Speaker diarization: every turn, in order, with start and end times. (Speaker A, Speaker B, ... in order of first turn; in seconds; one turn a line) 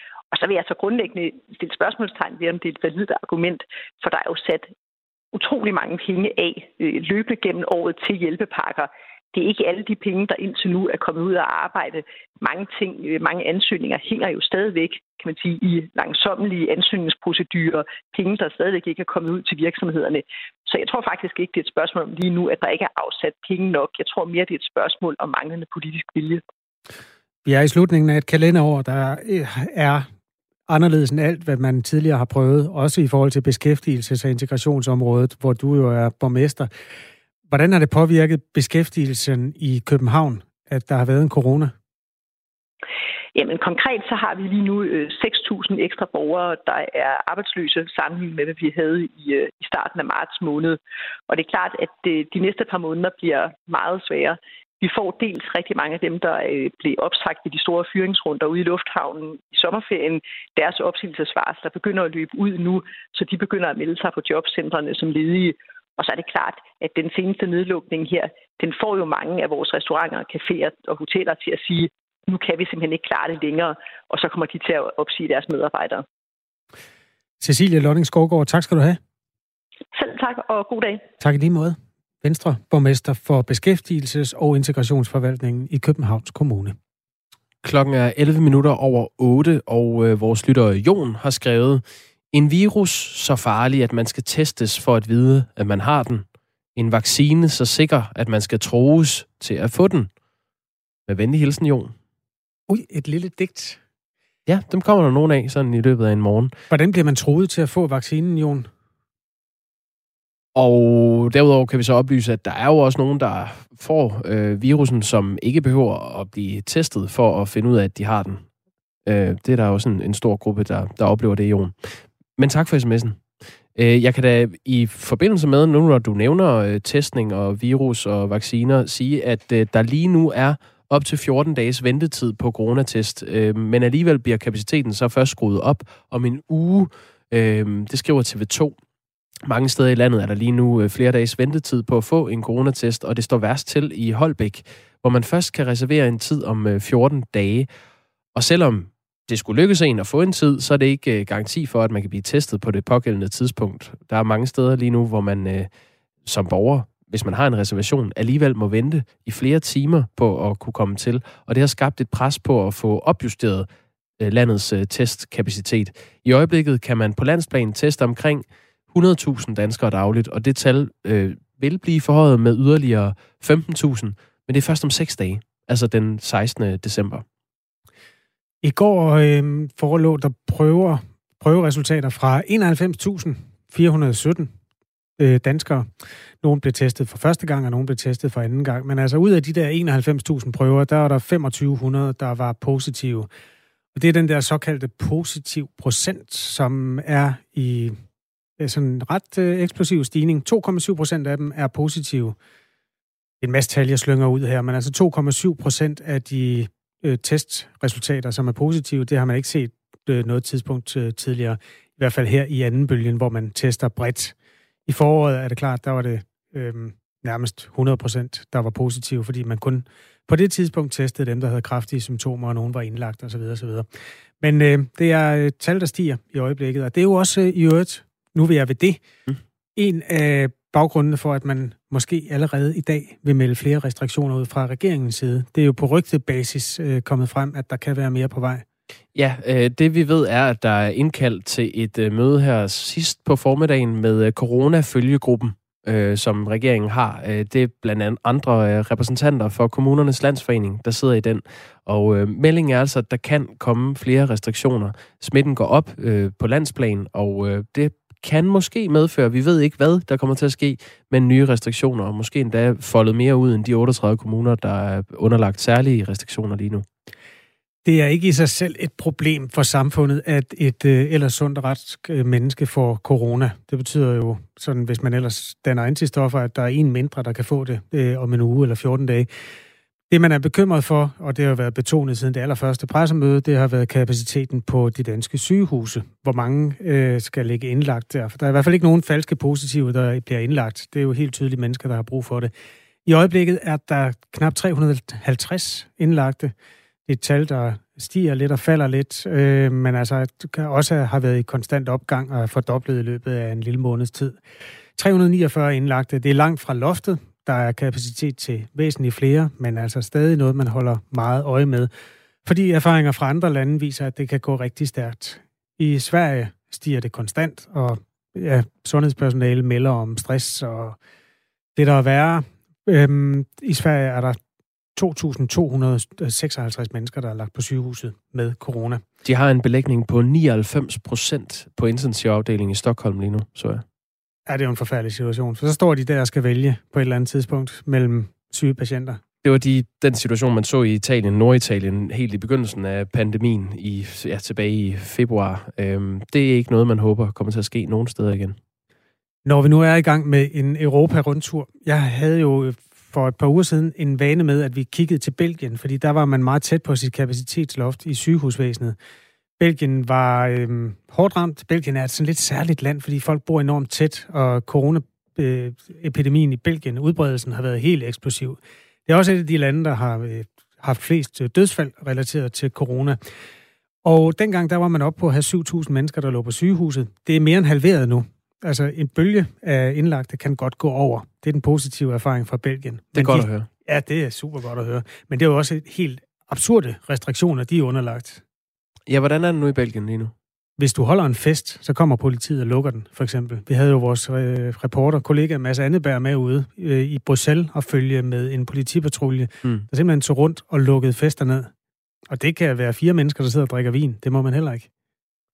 Speaker A: 0.3-4.7
Speaker A: 5.3-26.4
Speaker B: 27.4-30.1
Speaker B: 30.7-36.7
Speaker B: 37.5-41.7
Speaker A: 43.3-76.0
Speaker B: 77.4-79.0
Speaker A: 79.9-81.0
Speaker B: 81.2-86.8
Speaker C: 87.6-96.2
Speaker C: 96.8-100.1
Speaker C: 101.1-101.9
Speaker B: 102.7-103.8
Speaker C: 104.5-106.5
Speaker B: 106.7-108.7
Speaker C: 110.5-118.4
Speaker C: 119.0-123.2
Speaker C: 123.7-138.8
Speaker C: 139.4-147.7
Speaker C: 148.3-155.7
Speaker C: 156.2-163.7
Speaker C: 164.2-177.2
Speaker B: 178.6-184.5
Speaker B: 185.2-193.3
Speaker B: 193.9-198.0
Speaker B: 198.6-202.3
Speaker B: 203.4-214.3
Speaker B: 214.8-223.9
Speaker B: 224.4-229.0
Speaker B: 229.8-238.6
Speaker C: 239.1-266.8
Speaker B: 267.8-279.3
Speaker B: 280.1-292.5
Speaker B: 293.0-296.5
Speaker B: 297.1-304.4
Speaker B: 305.0-311.9
Speaker B: 312.4-321.0
Speaker B: 321.7-324.4
Speaker B: 324.9-329.0
Speaker C: 329.2-333.8
Speaker B: 334.5-339.2
Speaker C: 339.4-348.6
Speaker B: 349.4-359.0
Speaker B: 359.6-373.2
Speaker B: 374.0-388.4
Speaker C: 383.1-383.7
Speaker C: 389.1-390.3
Speaker B: 390.8-401.7
Speaker B: 402.3-404.9